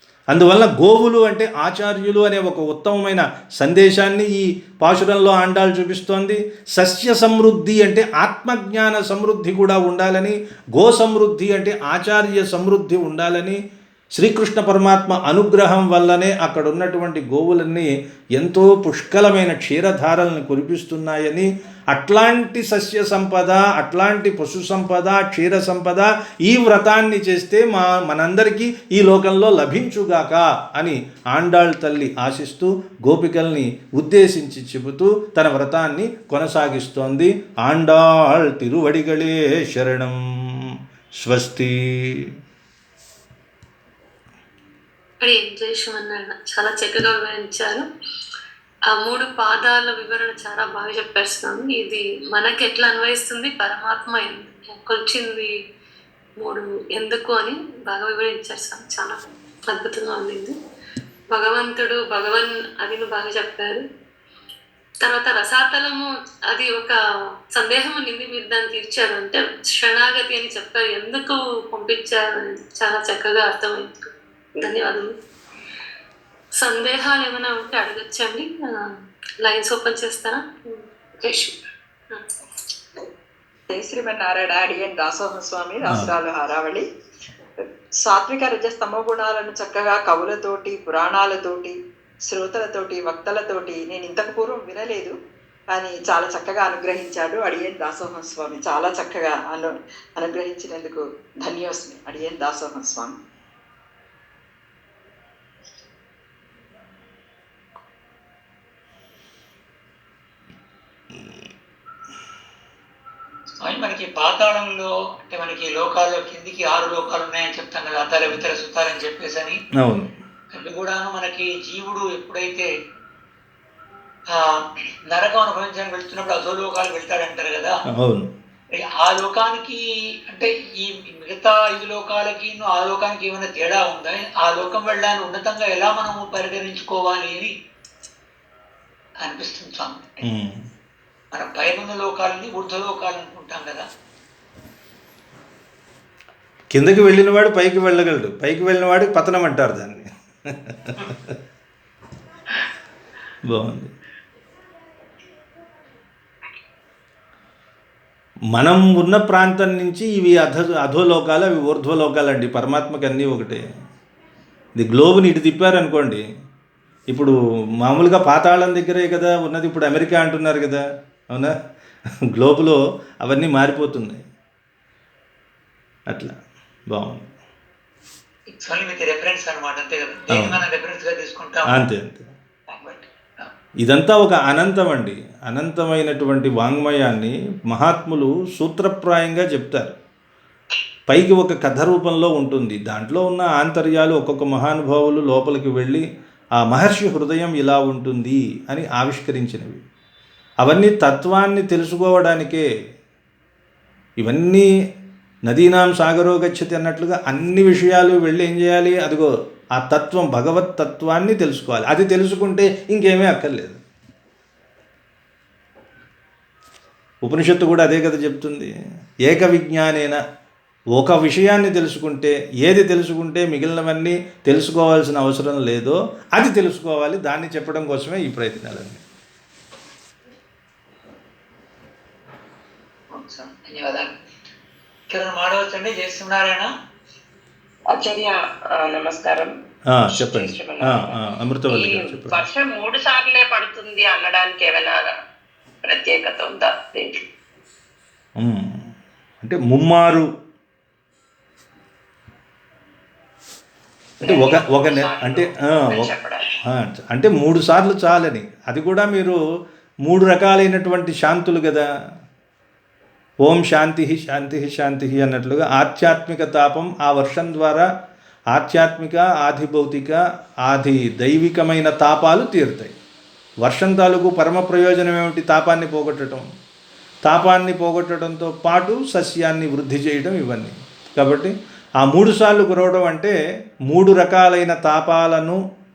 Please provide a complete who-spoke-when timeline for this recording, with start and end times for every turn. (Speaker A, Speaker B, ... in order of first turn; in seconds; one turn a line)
Speaker A: 0.3-13.6
Speaker A: 14.2-40.2
Speaker A: 41.2-41.7
Speaker B: 45.2-47.9
Speaker B: 48.9-55.5
Speaker B: 56.4-60.5
Speaker B: 61.3-63.8
Speaker B: 65.0-67.0
Speaker B: 67.5-75.1
Speaker B: 76.5-78.7
Speaker B: 79.4-81.5
Speaker C: 83.7-86.8
Speaker C: 88.0-91.7
Speaker C: 92.3-95.1
Speaker C: 95.7-103.1
Speaker D: 113.6-119.6
Speaker A: 119.8-120.1
Speaker D: 120.5-122.7
Speaker D: 125.1-127.7
Speaker A: 128.0-128.3
Speaker D: 129.0-129.8
Speaker D: 130.3-137.5
Speaker D: 139.2-140.2
Speaker A: 140.2-140.6
Speaker D: 141.3-143.8
Speaker A: 146.7-150.1
Speaker A: 150.7-151.1
Speaker A: 153.5-153.9
Speaker A: 158.5-163.6
Speaker A: 164.8-166.2
Speaker A: 167.1-170.8
Speaker A: 172.3-174.2
Speaker A: 176.9-177.3
Speaker D: 178.5-181.8
Speaker A: 180.3-180.6
Speaker A: 181.7-182.3
Speaker D: 182.7-183.5
Speaker A: 183.8-189.9
Speaker A: 191.1-196.0
Speaker A: 196.6-199.8
Speaker A: 200.6-202.6
Speaker A: 204.2-204.7
Speaker A: 205.5-213.8
Speaker A: 217.2-218.7
Speaker A: 219.3-220.2
Speaker A: 220.9-229.0
Speaker D: 233.1-234.1
Speaker D: 235.1-236.7
Speaker E: 237.9-239.5
Speaker A: 239.9-242.4
Speaker E: 240.1-241.2
Speaker E: 241.7-245.1
Speaker E: 245.8-247.2
Speaker A: 248.4-248.9
Speaker A: 249.4-250.2
Speaker E: 254.2-256.4
Speaker A: 254.2-256.1
Speaker A: 256.7-259.4
Speaker A: 260.1-261.8
Speaker A: 263.4-267.8
Speaker A: 268.5-272.9
Speaker A: 273.6-276.4
Speaker A: 277.2-283.3
Speaker A: 283.9-285.6